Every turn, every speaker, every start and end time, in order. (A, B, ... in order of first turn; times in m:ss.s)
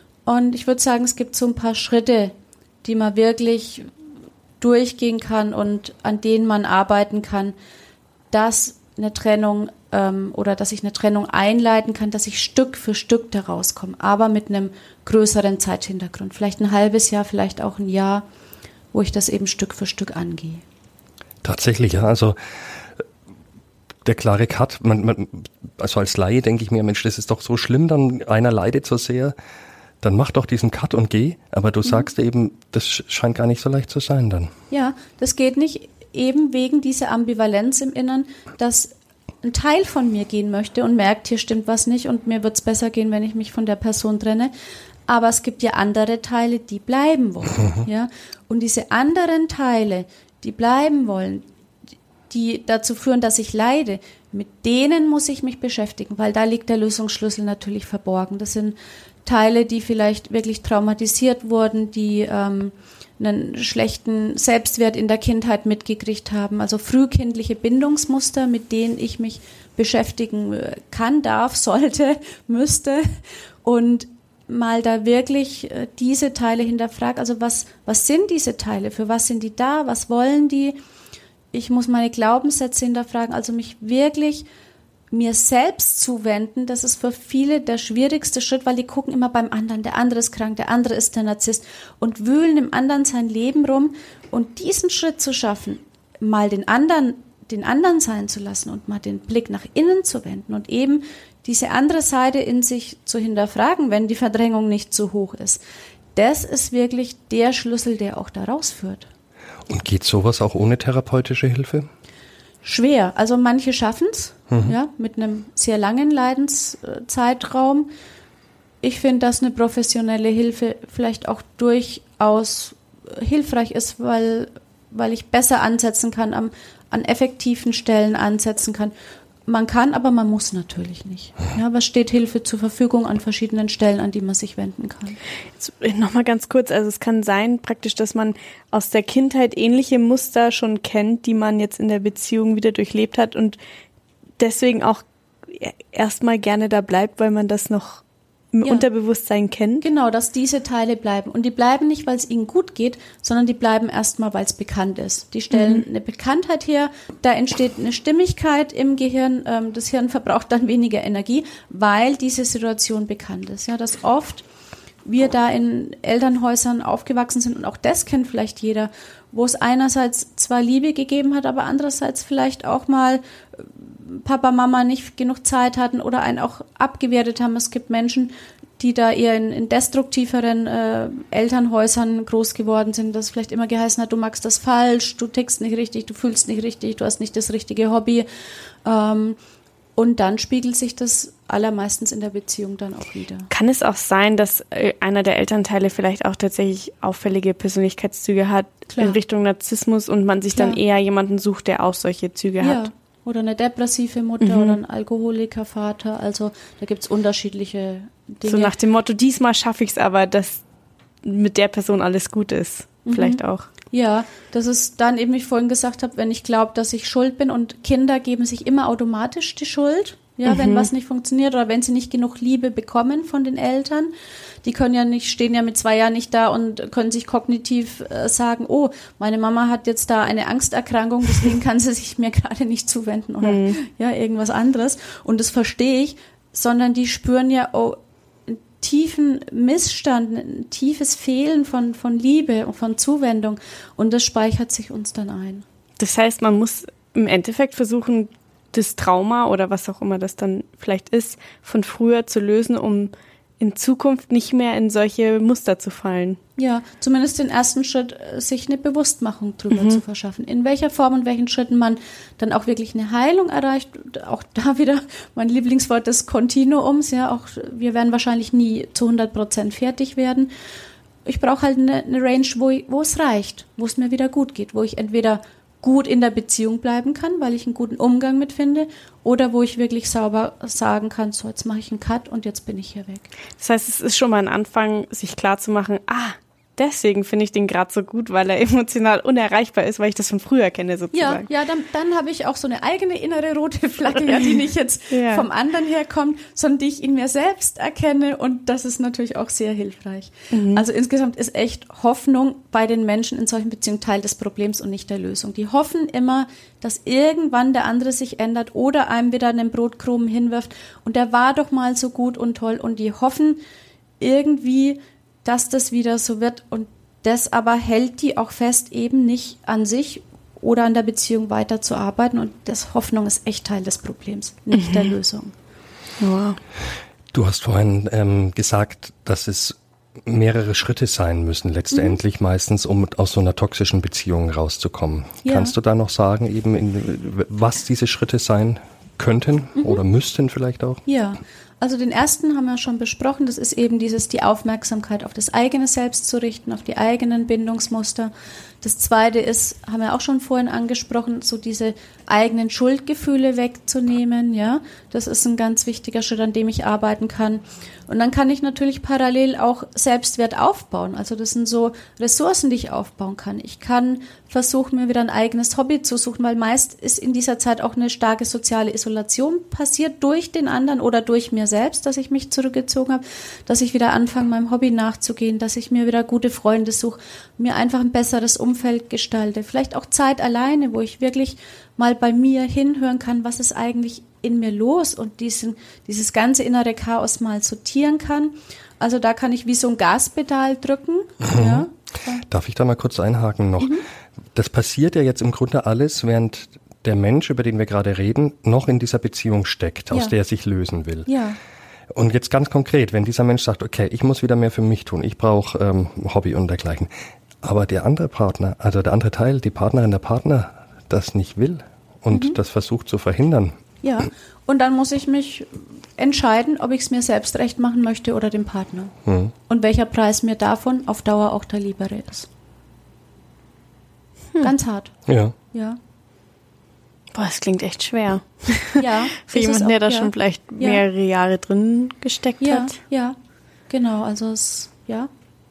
0:00.2-0:03.9 A
0:04.6-0:07.5 A
0:08.3-0:18.2 A
0:18.9-0:20.6 A
0:21.4-0:23.0 B
0:24.0-0:29.3 B
0:30.0-0:34.5 B
0:34.7-0:44.5 A
0:45.1-0:51.5 A
0:52.3-1:20.8 A
1:21.5-1:24.5 A
1:25.1-1:45.6 A
1:46.1-1:49.1 A
1:49.7-1:51.9 B
1:52.6-1:57.9 A
1:58.8-2:08.9 A
2:09.4-2:15.2 A
2:15.6-2:23.6 C
2:24.4-2:28.0 C
2:28.5-2:29.8 C
2:29.8-2:44.4 A
2:35.5-2:35.8 C
2:45.0-3:08.3 A
3:08.8-3:09.4 A
3:10.0-3:13.5 A
3:13.5-3:22.9 C
3:18.9-3:19.2 A
3:20.5-3:20.8 A
3:22.6-3:28.7 A
3:24.4-3:24.8 C
3:28.5-3:30.6 C
3:31.2-3:33.7 C
3:33.1-3:33.4 A
3:33.9-3:44.1 A
3:40.4-3:40.9 C
3:44.6-4:05.6 A
3:53.4-3:53.8 C
4:06.0-4:16.4 C
4:16.6-4:30.5 A
4:19.7-4:20.0 C
4:31.2-4:43.3 A
4:43.6-4:51.5 C
4:51.1-5:13.6 A
4:55.1-4:55.4 C
5:00.5-5:00.8 C
5:14.2-5:25.5 A
5:24.8-5:25.1 C
5:26.2-5:26.6 C
5:27.3-5:41.0 B
5:31.9-5:32.2 A
5:35.4-5:35.7 A
5:41.0-6:32.4 A
6:31.4-6:31.9 B
6:32.5-6:34.0 B
6:34.5-6:41.3 B
6:41.3-6:41.6 A
6:42.1-6:47.1 B
6:47.6-6:53.8 B
6:52.3-6:52.6 A
6:54.0-6:59.1 A
6:59.3-6:59.5 B
6:59.7-7:02.5 A
7:04.6-7:05.1 A
7:05.3-7:05.5 B
7:05.7-7:06.0 A
7:07.3-7:13.0 C
7:09.0-7:11.0 A
7:12.6-7:13.4 A
7:13.9-7:15.3 A